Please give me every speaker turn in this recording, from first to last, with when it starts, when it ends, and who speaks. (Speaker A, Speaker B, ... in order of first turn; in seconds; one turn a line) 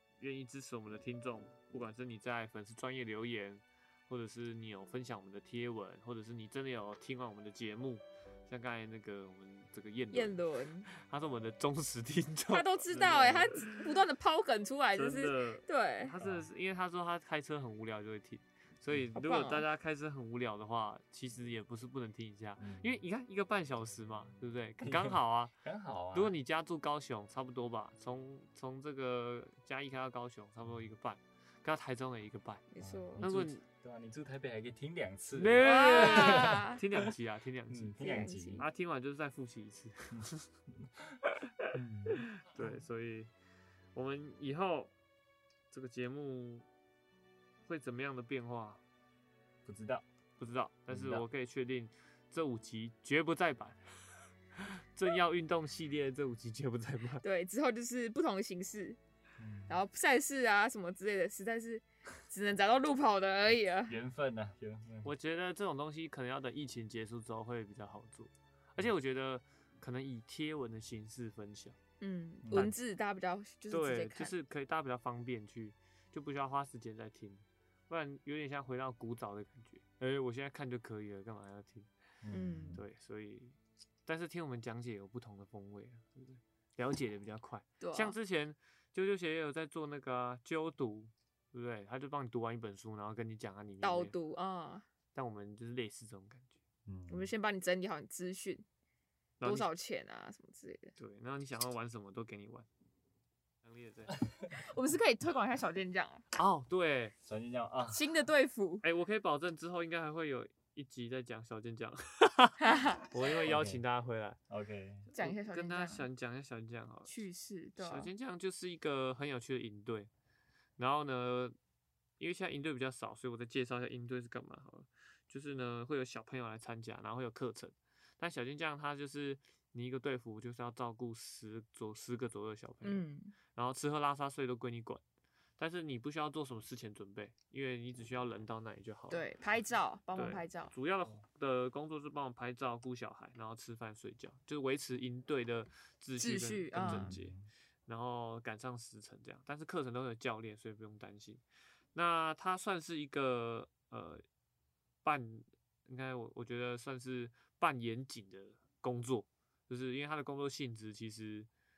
Speaker A: 0.2-10.4
Speaker B: 10.1-10.9
Speaker A: 10.9-13.8
Speaker B: 12.5-16.1
Speaker A: 14.9-25.5
Speaker C: 16.2-16.5
Speaker B: 19.2-19.6
Speaker C: 22.6-22.9
Speaker C: 24.8-26.3
Speaker A: 26.1-32.6
Speaker B: 32.7-33.2
Speaker C: 32.8-36.7
Speaker A: 33.2-33.6
Speaker A: 35.3-38.0
Speaker B: 35.6-36.8
Speaker C: 37.7-38.7
Speaker B: 38.0-38.6
Speaker A: 38.6-40.5
Speaker C: 41.7-42.8
Speaker A: 42.4-43.3
Speaker A: 43.9-44.9
Speaker A: 45.7-46.7
Speaker A: 47.7-48.8
Speaker C: 49.7-50.0
Speaker A: 50.4-53.8
Speaker C: 50.9-51.2
Speaker A: 54.6-57.2
Speaker B: 57.2-59.0
Speaker C: 59.4-59.8
Speaker B: 59.7-63.9
Speaker C: 63.9-65.1
Speaker A: 65.0-71.8
Speaker B: 72.0-74.3
Speaker C: 72.4-72.7
Speaker A: 72.5-72.8
Speaker A: 73.7-81.9
Speaker C: 82.2-82.8
Speaker B: 82.3-82.8
Speaker A: 82.8-94.2
Speaker B: 87.8-88.2
Speaker B: 93.8-94.8
Speaker A: 95.2-96.6
Speaker C: 96.9-97.3
Speaker B: 97.1-98.6
Speaker A: 99.4-99.7
Speaker B: 99.4-100.9
Speaker A: 101.0-102.7
Speaker A: 103.6-104.2
Speaker B: 104.5-106.2
Speaker A: 106.3-107.2
Speaker C: 107.2-108.1
Speaker B: 107.9-108.8
Speaker A: 108.8-114.4
Speaker B: 112.6-113.0
Speaker C: 113.4-113.8
Speaker C: 114.5-115.1
Speaker A: 115.1-117.2
Speaker B: 115.1-116.1
Speaker B: 117.1-118.1
Speaker A: 117.8-120.1
Speaker A: 120.8-121.6
Speaker A: 122.2-135.0
Speaker B: 132.8-133.3
Speaker A: 135.6-139.2
Speaker B: 139.1-140.7
Speaker A: 140.2-151.4
Speaker B: 146.2-147.2
Speaker C: 146.8-147.5
Speaker A: 151.9-154.2
Speaker A: 155.0-161.5